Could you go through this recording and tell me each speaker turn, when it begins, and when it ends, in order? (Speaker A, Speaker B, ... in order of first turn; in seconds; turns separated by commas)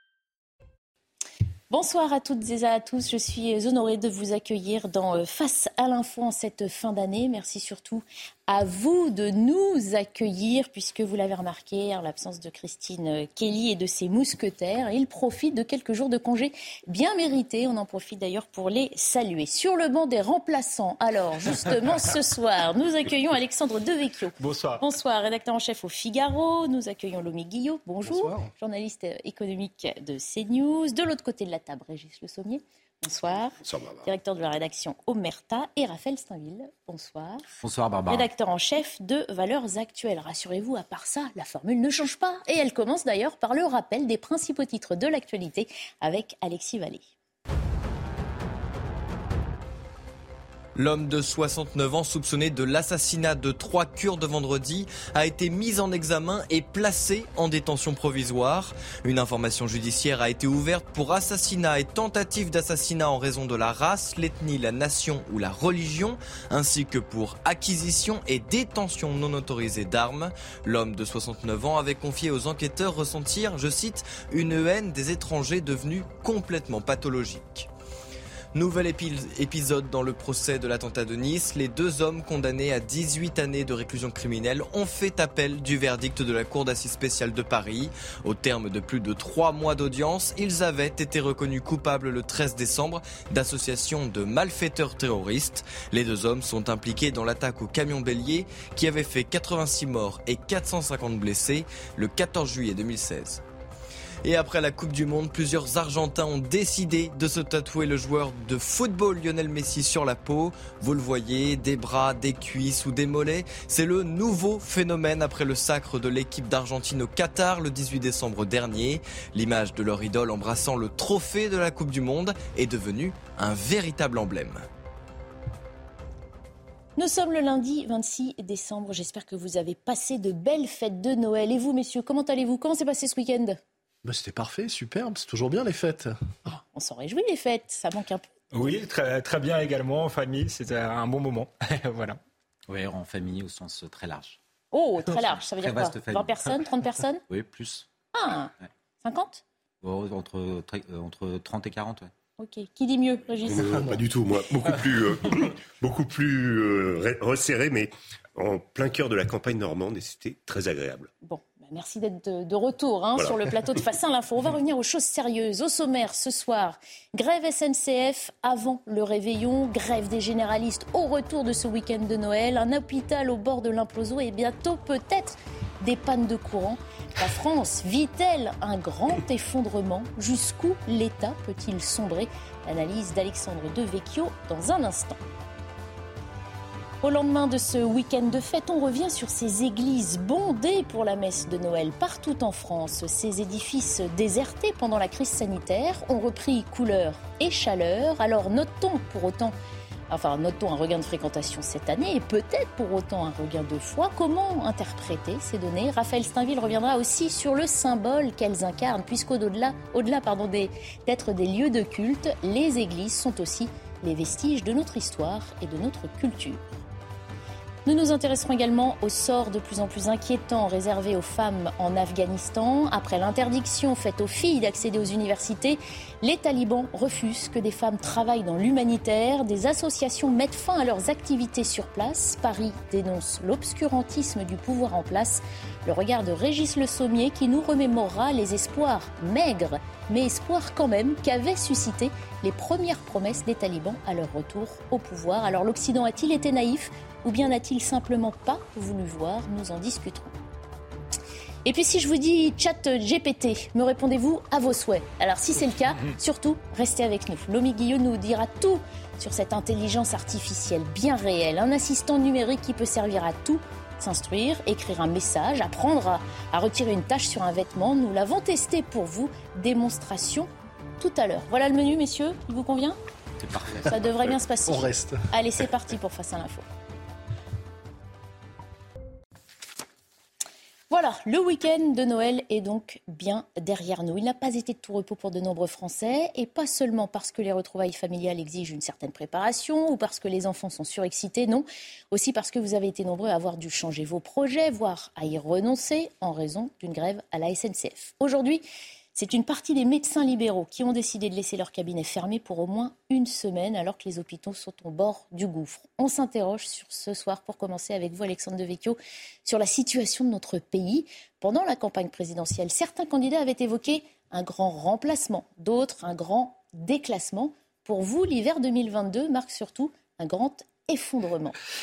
Speaker A: 1.7-37.4, Speaker B: 24.4-24.8, Speaker C: 28.0-28.5, Speaker D: 33.6-34.0, Speaker E: 37.6-38.3, Speaker A: 38.1-47.0, Speaker F: 50.8-77.7, Speaker F: 78.5-103.4, Speaker F: 104.2-124.7, Speaker A: 127.0-133.6, Speaker C: 134.0-136.1, Speaker A: 136.5-138.3, Speaker B: 138.5-142.2, Speaker E: 142.7-144.4, Speaker A: 144.7-147.2, Speaker E: 145.1-146.6, Speaker E: 147.3-147.9, Speaker A: 148.1-149.4, Speaker E: 149.8-152.1, Speaker A: 152.4-153.8, Speaker D: 153.5-161.1, Speaker C: 153.6-154.0, Speaker A: 161.2-185.2, Speaker A: 187.0-199.6, Speaker A: 200.1-216.6, Speaker A: 217.9-250.3, Speaker A: 251.7-273.0, Speaker E: 273.4-273.9, Speaker A: 273.9-276.6, Speaker C: 274.7-275.2, Speaker A: 280.9-298.6, Speaker A: 299.1-321.6